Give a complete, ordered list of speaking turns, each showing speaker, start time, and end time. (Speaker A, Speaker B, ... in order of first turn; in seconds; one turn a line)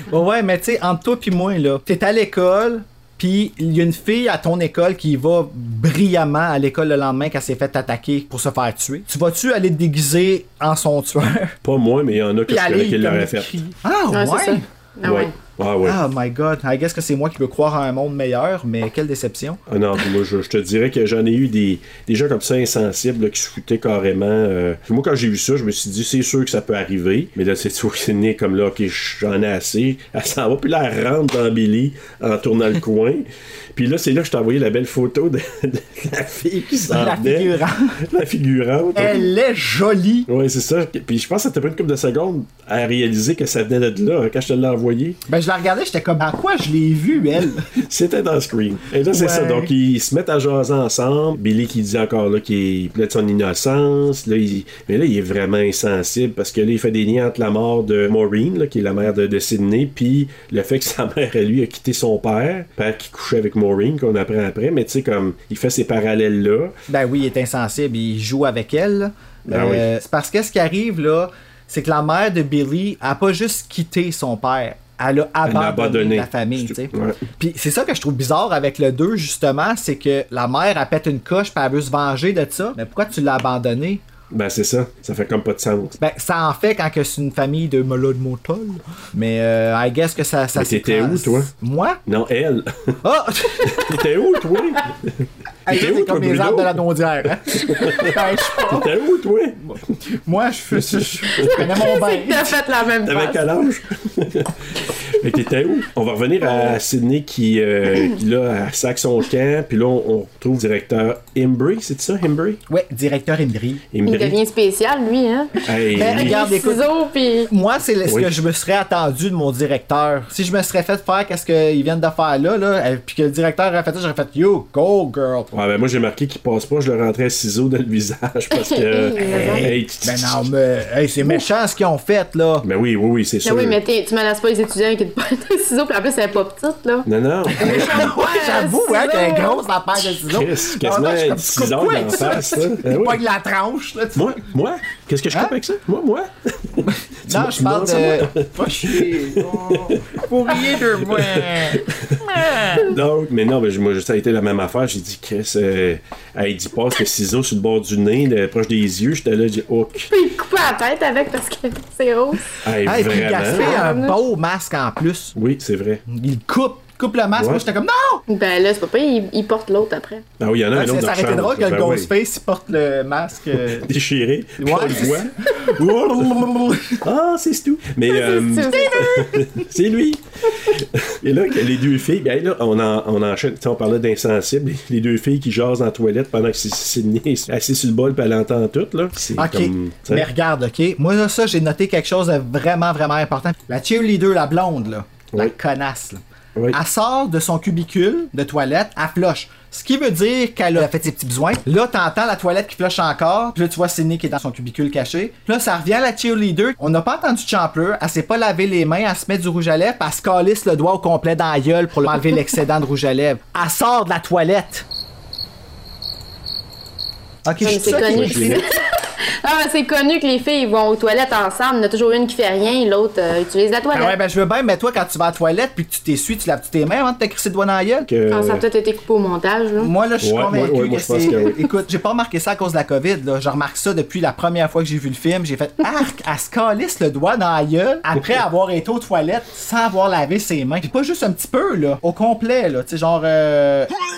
Speaker A: 0.1-11.5
Speaker B: 11.6-13.6
Speaker A: 12.5-14.6
Speaker C: 14.1-15.3
Speaker B: 15.0-16.0
Speaker A: 15.8-19.6
Speaker B: 19.7-39.3
Speaker A: 36.9-38.0
Speaker A: 38.9-40.3
Speaker B: 40.3-45.2
Speaker A: 45.3-47.6
Speaker B: 47.8-66.7
Speaker A: 49.1-49.7
Speaker A: 66.9-84.0
Speaker B: 69.5-69.8
Speaker B: 75.4-77.2
Speaker B: 84.3-86.0
Speaker A: 86.0-92.0
Speaker B: 90.5-91.5
Speaker B: 92.0-93.0
Speaker A: 93.0-93.9
Speaker B: 93.6-96.8
Speaker A: 95.7-98.9
Speaker B: 97.5-99.6
Speaker A: 99.7-102.6
Speaker B: 100.9-101.8
Speaker C: 101.7-103.4
Speaker B: 103.0-112.6
Speaker A: 112.7-113.8
Speaker B: 113.9-114.4
Speaker C: 114.0-117.5
Speaker B: 115.6-116.4
Speaker A: 115.9-116.8
Speaker A: 117.5-125.5
Speaker B: 118.0-118.3
Speaker B: 125.5-130.5
Speaker C: 128.6-129.7
Speaker A: 129.2-132.7
Speaker B: 132.6-133.8
Speaker C: 133.4-137.1
Speaker B: 137.1-138.1
Speaker A: 137.5-144.4
Speaker C: 137.6-139.6
Speaker B: 140.2-143.2
Speaker B: 144.1-160.1
Speaker A: 147.2-152.9
Speaker C: 160.1-162.4
Speaker B: 162.6-163.8
Speaker A: 162.8-165.3
Speaker C: 163.6-164.2
Speaker B: 165.3-166.0
Speaker A: 166.1-168.2
Speaker B: 167.3-167.6
Speaker C: 168.3-170.2
Speaker B: 170.4-172.1
Speaker A: 170.7-173.9
Speaker B: 173.7-175.3
Speaker A: 174.6-177.0
Speaker B: 177.0-190.3
Speaker C: 178.1-179.3
Speaker A: 178.7-179.2
Speaker A: 189.3-214.8
Speaker A: 217.4-218.6
Speaker B: 217.6-218.6
Speaker C: 217.6-224.2
Speaker A: 223.9-228.1
Speaker B: 228.1-228.6
Speaker C: 228.3-229.9
Speaker A: 229.8-243.9
Speaker B: 230.2-231.6